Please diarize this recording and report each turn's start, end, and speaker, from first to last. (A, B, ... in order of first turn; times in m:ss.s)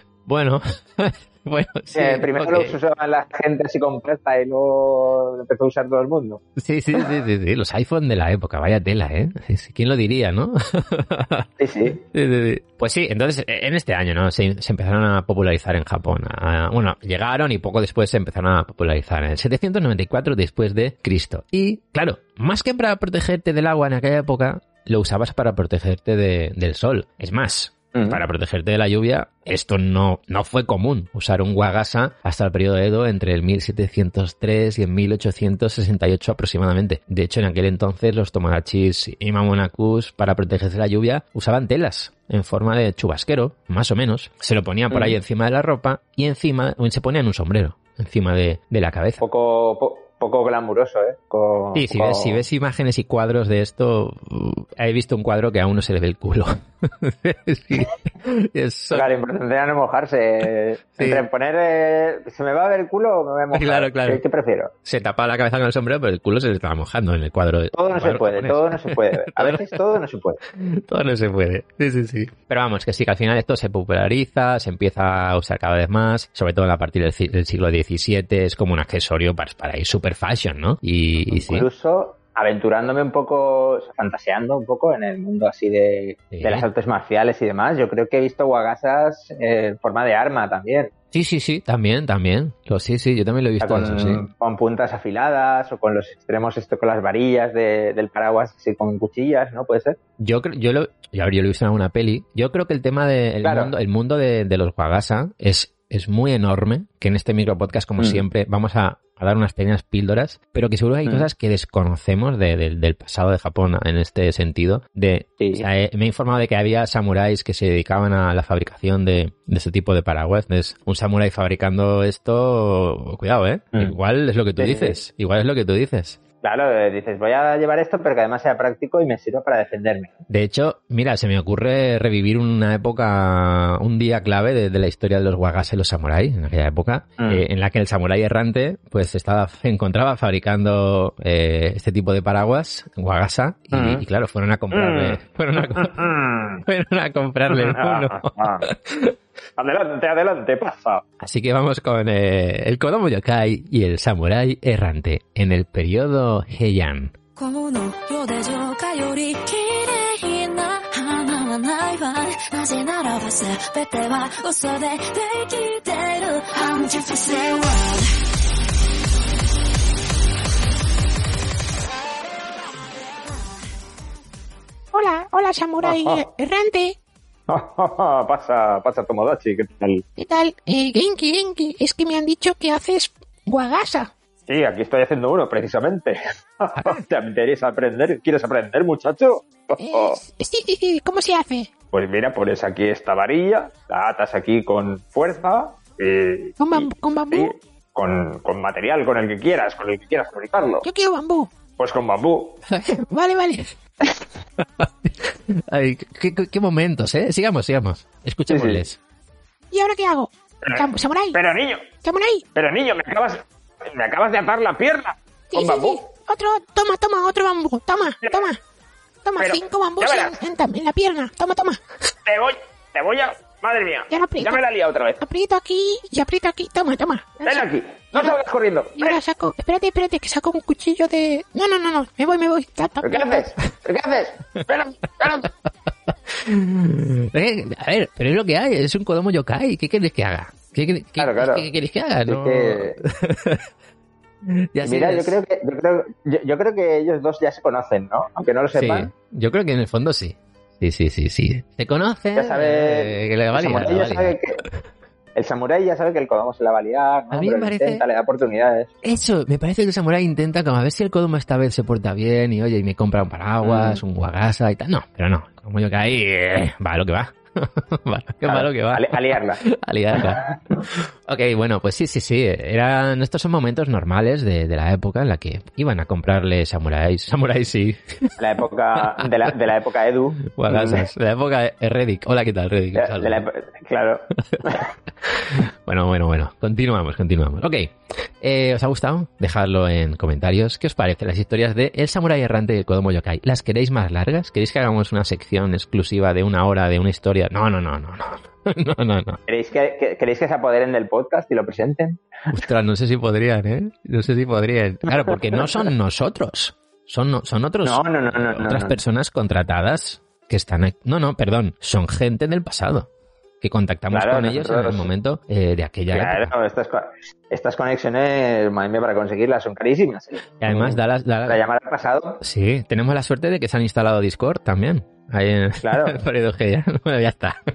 0:00.3-0:02.8 A
0:01.9-0:06.4 B
0:06.6-0:11.5 A
0:11.6-0:12.0 B
0:12.0-0:49.2 A
0:27.9-0:28.2 B
0:44.9-0:45.2 B
0:49.2-0:52.4 B
0:51.7-0:59.1 A
0:58.9-1:04.7 B
1:01.0-1:01.2 A
1:03.5-1:04.2 A
1:04.8-1:09.8 A
1:07.7-1:10.4 B
1:10.5-1:21.7 A
1:21.3-1:30.9 B
1:26.3-1:26.6 A
1:31.1-1:34.2 A
1:33.6-1:40.0 B
1:40.2-2:06.2 A
1:43.4-1:43.7 B
1:48.0-1:48.2 B
1:55.4-1:55.7 B
2:04.6-2:05.0 B
2:06.4-2:10.1 B
2:10.3-2:26.0 A
2:17.2-2:17.4 B
2:23.7-2:24.0 B
2:24.7-2:25.2 B
2:25.7-2:26.6 B
2:26.6-2:29.2 A
2:27.5-2:28.7 B
2:29.6-2:31.0 B
2:31.2-2:37.1 A
2:37.4-2:48.1 C
2:54.9-2:57.0 D
2:55.8-2:56.2 B
2:57.5-3:00.0 B
3:00.2-3:04.1 D
3:04.5-3:10.2 B
3:06.8-3:07.0 A
3:09.8-3:11.7 D
3:11.9-3:20.8 B
3:16.6-3:17.5 D
3:20.8-3:21.5 D
3:21.8-3:22.6 B
3:22.9-3:23.7 D
3:24.6-3:29.0 A
3:28.5-3:28.8 B
3:29.7-3:31.4 D
3:30.6-3:31.8 B
3:32.0-3:32.4 D
3:32.5-3:36.0 B
3:35.5-3:38.6 D
3:38.2-3:38.5 B
3:39.2-3:41.8 D
3:39.4-3:40.4 B
3:42.2-3:45.2 B
3:44.1-3:44.6 D
3:45.2-3:48.3 D
3:47.4-3:49.2 B
3:49.0-3:53.5 D
3:53.0-3:55.5 B
3:56.3-4:03.7 A
4:01.2-4:01.7 B
4:02.2-4:03.0 B
4:04.4-4:05.4 A
4:04.8-4:09.1 B
4:08.7-4:14.4 A
4:12.3-4:14.6 B
4:15.3-4:18.9 B
4:17.3-4:18.0 A
4:19.0-4:38.4 A
4:23.6-4:24.0 B
4:28.4-4:29.6 B
4:30.1-4:30.8 B
4:38.4-4:41.1 B
4:39.0-4:39.5 A
4:40.4-4:43.4 A
4:42.9-4:44.9 B
4:44.4-4:44.6 A
4:45.2-4:59.4 A
4:59.5-5:02.2 B
5:02.5-5:13.1 A
5:05.1-5:05.9 B
5:07.8-5:09.0 B
5:13.6-5:16.5 A
5:14.1-5:15.1 B
5:16.1-5:22.4 B
5:20.6-5:21.6 A
5:22.4-5:27.6 A
5:25.8-5:26.2 B